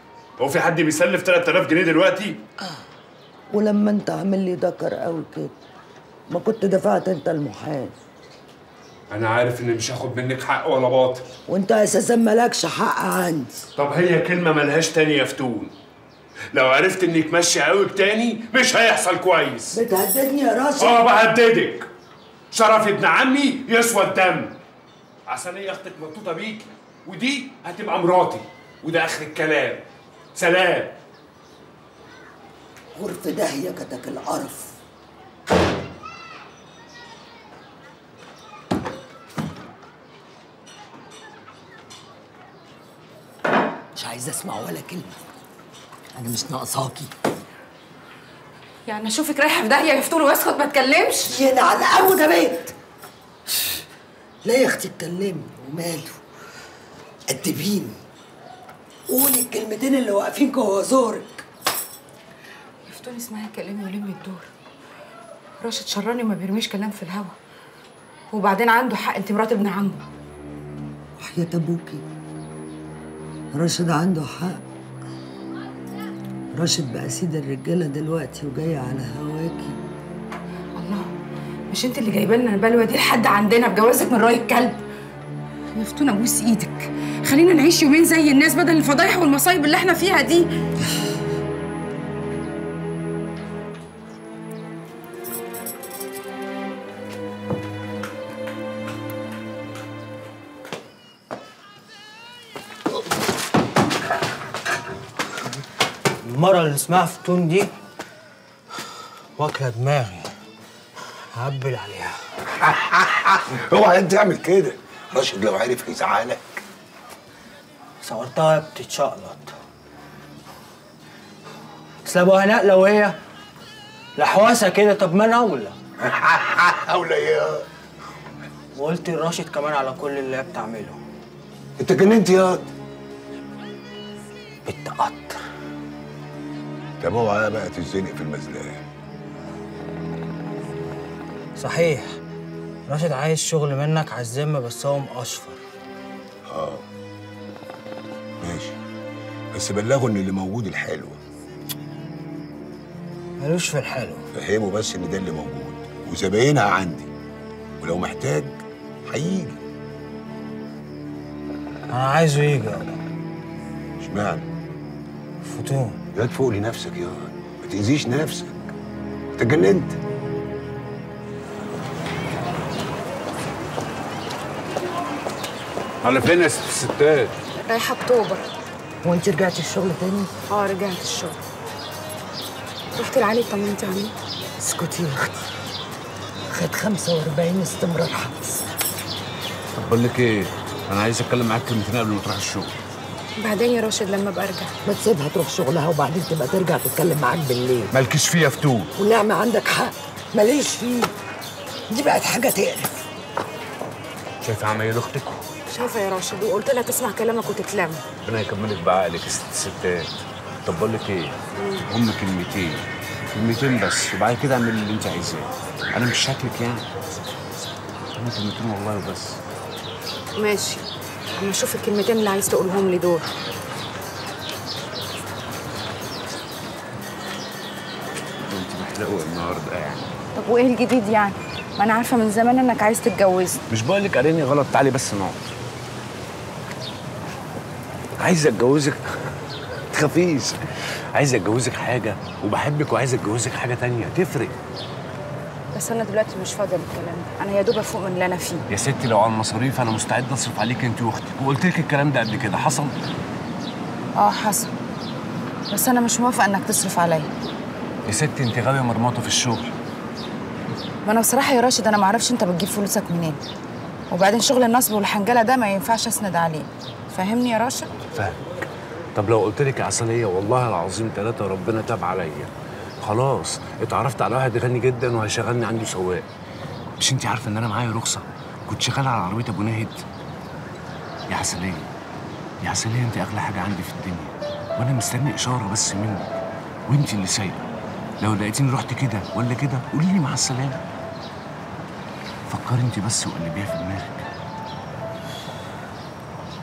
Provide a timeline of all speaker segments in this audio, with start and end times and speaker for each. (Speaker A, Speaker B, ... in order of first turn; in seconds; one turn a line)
Speaker A: 0.4-2.4
Speaker B: 3.5-5.5
Speaker B: 6.3-8.0
Speaker A: 9.1-11.3
Speaker B: 11.5-13.6
Speaker A: 13.8-15.7
Speaker A: 16.5-19.8
Speaker B: 19.7-21.0
Speaker A: 20.8-21.9
Speaker A: 22.5-24.6
Speaker A: 25.3-29.8
Speaker A: 30.4-31.0
Speaker B: 33.0-34.8
Speaker B: 44.0-45.2
Speaker B: 46.1-47.1
Speaker C: 48.9-51.4
Speaker B: 51.3-52.7
Speaker B: 53.5-53.8
Speaker B: 54.5-56.2
Speaker B: 57.3-58.0
Speaker B: 59.1-61.5
Speaker C: 62.9-64.5
Speaker C: 65.6-67.3
Speaker C: 68.3-70.0
Speaker B: 71.2-72.0
Speaker B: 73.5-74.6
Speaker B: 76.5-79.8
Speaker C: 80.8-81.1
Speaker C: 81.7-84.8
Speaker C: 85.7-90.5
Speaker D: 106.3-107.7
Speaker D: 109.4-110.3
Speaker D: 111.3-112.2
Speaker E: 112.6-116.6
Speaker D: 118.0-119.6
Speaker D: 122.0-123.2
Speaker D: 124.2-125.8
Speaker E: 126.0-127.7
Speaker D: 128.8-131.0
Speaker E: 131.8-132.7
Speaker D: 134.7-135.4
Speaker E: 137.0-138.8
Speaker D: 141.6-142.1
Speaker D: 142.9-145.6
Speaker E: 146.5-146.8
Speaker E: 148.4-148.8
Speaker E: 149.5-151.2
Speaker D: 153.4-154.2
Speaker E: 154.3-157.1
Speaker E: 157.8-158.5
Speaker E: 159.1-159.6
Speaker D: 161.9-163.0
Speaker E: 164.0-164.4
Speaker D: 165.4-166.0
Speaker E: 166.2-168.7
Speaker E: 169.4-170.0
Speaker A: 176.0-177.3
Speaker C: 177.6-178.4
Speaker B: 179.0-180.3
Speaker C: 180.5-181.4
Speaker C: 182.9-184.1
Speaker B: 184.6-185.5
Speaker B: 186.5-188.6
Speaker A: 189.8-192.7
Speaker C: 193.4-194.7
Speaker B: 194.8-197.9
Speaker A: 197.9-198.9
Speaker B: 199.0-201.1
Speaker B: 201.9-203.1
Speaker A: 204.4-205.4
Speaker C: 205.7-208.0
Speaker A: 208.2-210.1
Speaker A: 210.7-211.4
Speaker C: 211.6-211.9
Speaker A: 211.9-216.8
Speaker A: 218.2-219.4
Speaker C: 220.4-220.8
Speaker C: 221.3-223.3
Speaker A: 228.4-230.1
Speaker C: 230.4-233.6
Speaker A: 233.7-235.4
Speaker A: 238.2-239.0
Speaker A: 239.9-240.6
Speaker A: 241.1-244.6
Speaker C: 245.7-248.6
Speaker A: 248.7-252.9
Speaker C: 254.2-254.8
Speaker C: 255.7-257.3
Speaker A: 258.1-259.7
Speaker C: 261.1-263.4
Speaker C: 264.1-267.9
Speaker A: 268.1-268.4
Speaker A: 269.1-272.5
Speaker A: 273.0-276.2
Speaker A: 277.0-280.0
Speaker A: 281.3-281.9
Speaker A: 282.6-286.3
Speaker A: 286.9-287.7
Speaker A: 288.2-290.8
Speaker A: 292.5-294.3